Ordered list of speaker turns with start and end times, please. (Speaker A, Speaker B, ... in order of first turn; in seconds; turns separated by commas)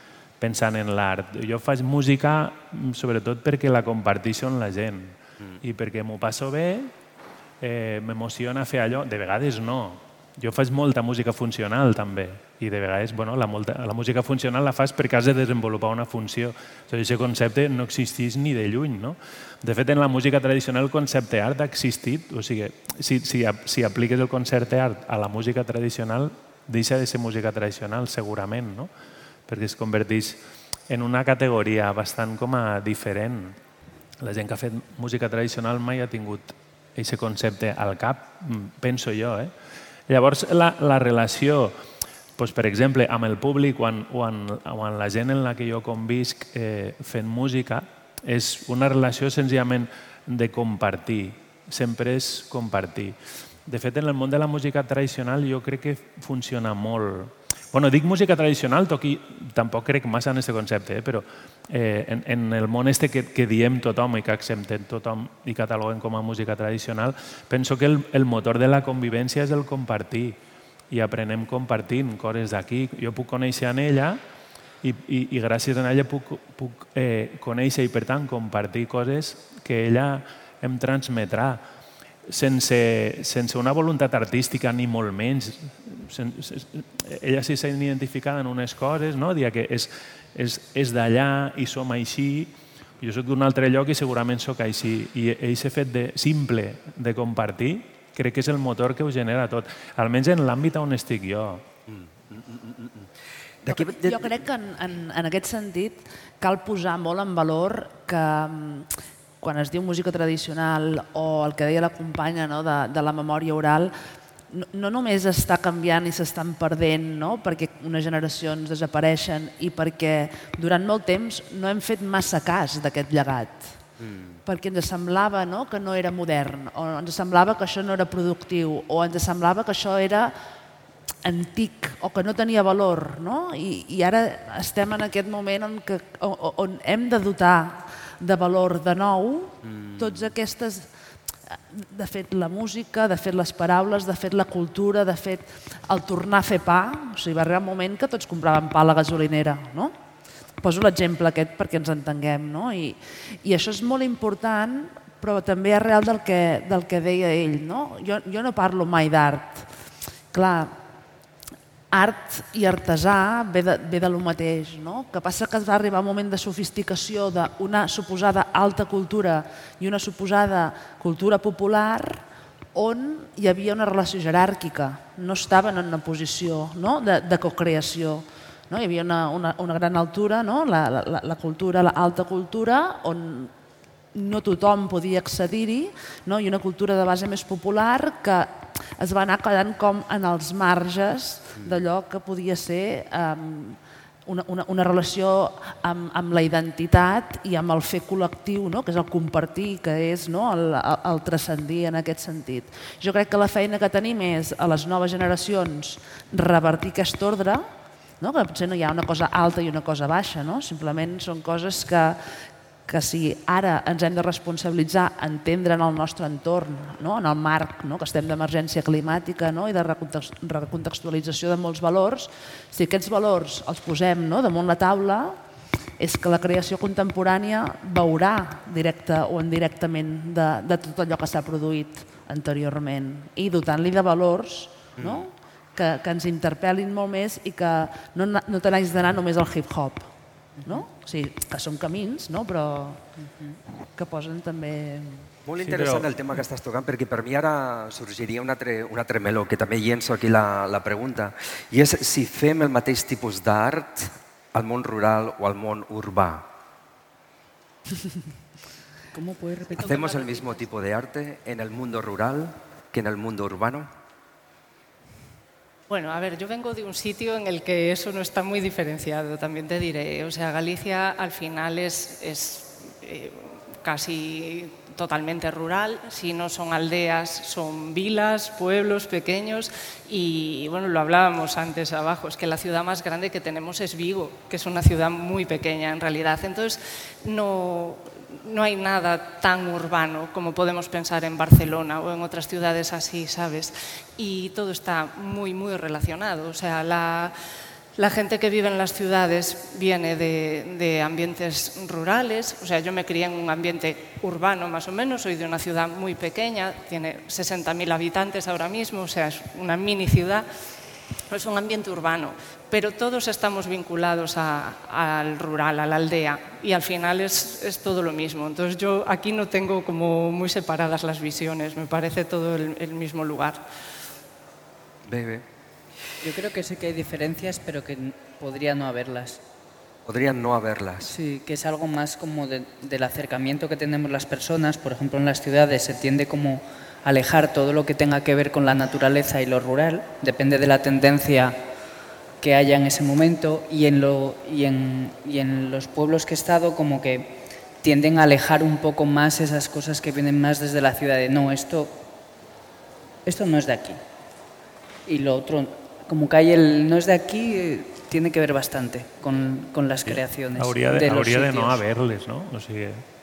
Speaker A: 0.4-6.9, Speaker A: 7.6-28.9, Speaker A: 29.5-33.6, Speaker A: 34.2-39.5, Speaker A: 40.1-41.8, Speaker A: 42.4-70.4, Speaker A: 70.9-74.2, Speaker A: 74.8-81.6, Speaker A: 82.3-101.6, Speaker B: 101.9-103.1, Speaker B: 103.6-104.3, Speaker C: 103.7-108.9, Speaker C: 109.4-113.9, Speaker C: 114.5-123.7, Speaker B: 124.0-124.4, Speaker C: 124.5-130.3, Speaker C: 131.2-140.9, Speaker B: 139.6-140.3, Speaker C: 141.7-149.9, Speaker C: 150.6-159.7, Speaker C: 160.3-160.7, Speaker C: 161.9-172.2, Speaker C: 172.8-183.5, Speaker C: 184.1-207.7, Speaker C: 208.2-212.2, Speaker C: 212.9-225.4, Speaker C: 226.0-240.1, Speaker B: 235.0-235.3, Speaker C: 240.7-243.0, Speaker C: 244.0-245.2, Speaker B: 245.5-256.5, Speaker A: 245.6-246.1, Speaker D: 259.1-260.1, Speaker B: 259.8-263.9, Speaker E: 259.8-260.7, Speaker E: 265.9-297.3, Speaker E: 298.0-310.5, Speaker E: 311.3-323.6, Speaker B: 325.1-325.4, Speaker D: 326.2-329.4, Speaker B: 330.1-331.1, Speaker D: 331.0-341.6, Speaker D: 342.4-352.0, Speaker D: 353.3-354.0, Speaker D: 355.1-361.8, Speaker A: 360.1-363.0